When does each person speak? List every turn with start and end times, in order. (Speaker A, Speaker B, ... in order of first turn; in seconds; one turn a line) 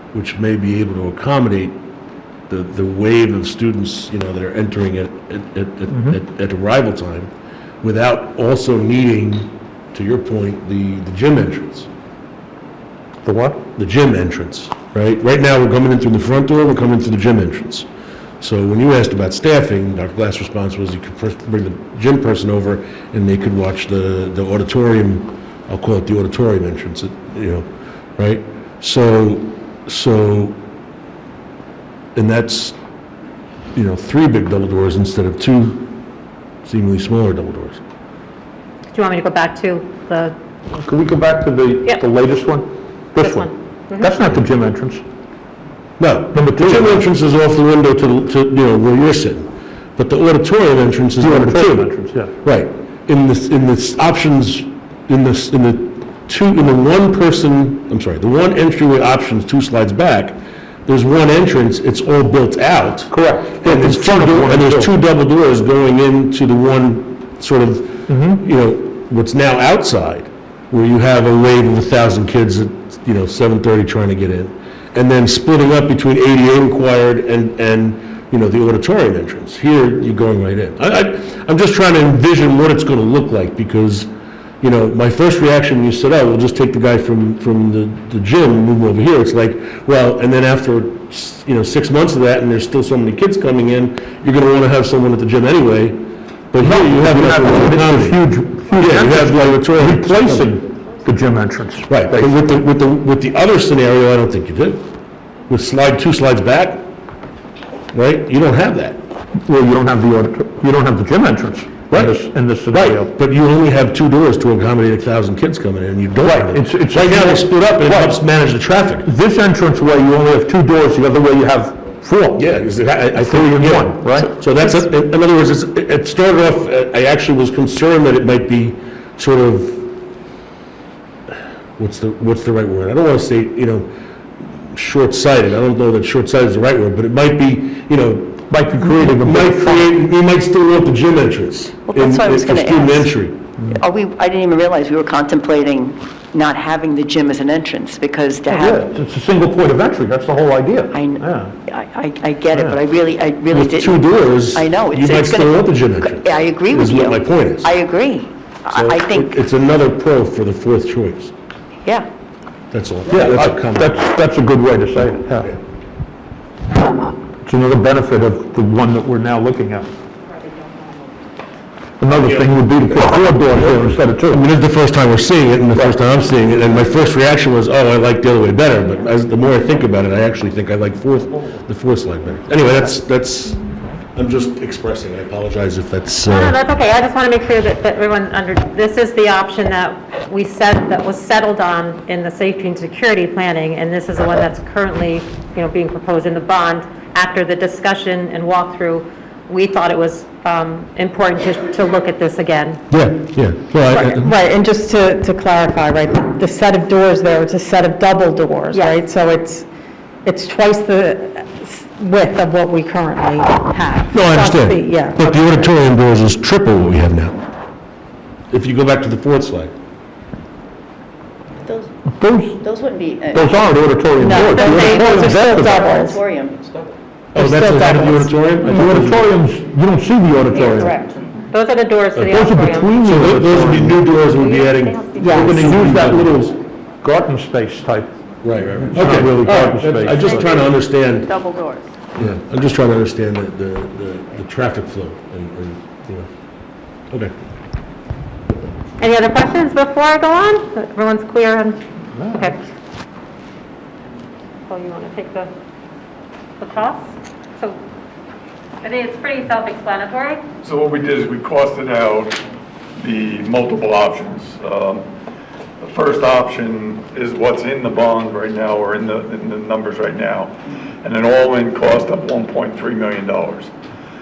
Speaker A: 0.1-1.8
Speaker A: 2.5-7.3
Speaker A: 7.8-11.9
Speaker B: 13.2-13.6
Speaker A: 13.8-17.9
Speaker A: 18.4-27.6
Speaker A: 28.2-30.6
Speaker A: 32.1-32.8
Speaker A: 33.8-36.0
Speaker A: 36.6-37.8
Speaker C: 38.9-40.4
Speaker B: 40.7-45.0
Speaker C: 43.2-44.2
Speaker A: 46.0-84.1
Speaker B: 46.3-47.0
Speaker B: 51.2-52.3
Speaker B: 63.1-64.9
Speaker B: 68.1-68.4
Speaker A: 84.6-98.2
Speaker B: 96.6-102.4
Speaker A: 98.8-100.5
Speaker A: 101.9-104.9
Speaker A: 105.5-106.9
Speaker A: 107.9-109.0
Speaker B: 109.3-113.1
Speaker A: 111.9-112.2
Speaker A: 112.7-119.1
Speaker B: 116.2-118.2
Speaker B: 119.0-122.5
Speaker A: 122.4-130.0
Speaker B: 123.1-124.3
Speaker A: 131.8-133.9
Speaker A: 134.4-143.4
Speaker B: 138.5-139.9
Speaker D: 141.9-143.0
Speaker B: 143.6-143.8
Speaker D: 144.0-148.6
Speaker B: 148.5-151.5
Speaker D: 151.7-154.0
Speaker B: 152.5-152.8
Speaker A: 153.5-157.8
Speaker D: 154.6-159.3
Speaker A: 158.7-161.3
Speaker A: 162.7-164.0
Speaker B: 163.1-165.6
Speaker B: 167.4-169.9
Speaker B: 172.0-174.4
Speaker A: 172.1-186.6
Speaker C: 186.3-202.8
Speaker A: 202.9-204.3
Speaker E: 203.9-209.7
Speaker C: 208.7-209.0
Speaker E: 210.2-215.6
Speaker A: 214.1-217.4
Speaker A: 218.5-219.7
Speaker B: 222.1-222.7
Speaker F: 222.6-223.6
Speaker B: 223.3-225.9
Speaker E: 224.2-226.2
Speaker C: 224.4-225.2
Speaker F: 224.6-226.5
Speaker A: 227.3-229.3
Speaker E: 227.4-228.3
Speaker B: 228.6-231.0
Speaker F: 230.5-231.1
Speaker C: 231.5-232.9
Speaker B: 232.2-234.1
Speaker A: 233.0-236.5
Speaker C: 234.2-235.9
Speaker E: 235.2-235.6
Speaker B: 235.3-238.1
Speaker A: 238.4-241.3
Speaker B: 238.8-240.6
Speaker A: 242.2-246.3
Speaker C: 249.0-252.6
Speaker B: 252.2-252.5
Speaker C: 254.7-255.5
Speaker C: 256.6-257.8
Speaker C: 258.8-260.4
Speaker G: 260.6-262.4
Speaker G: 263.0-265.0
Speaker G: 265.8-273.7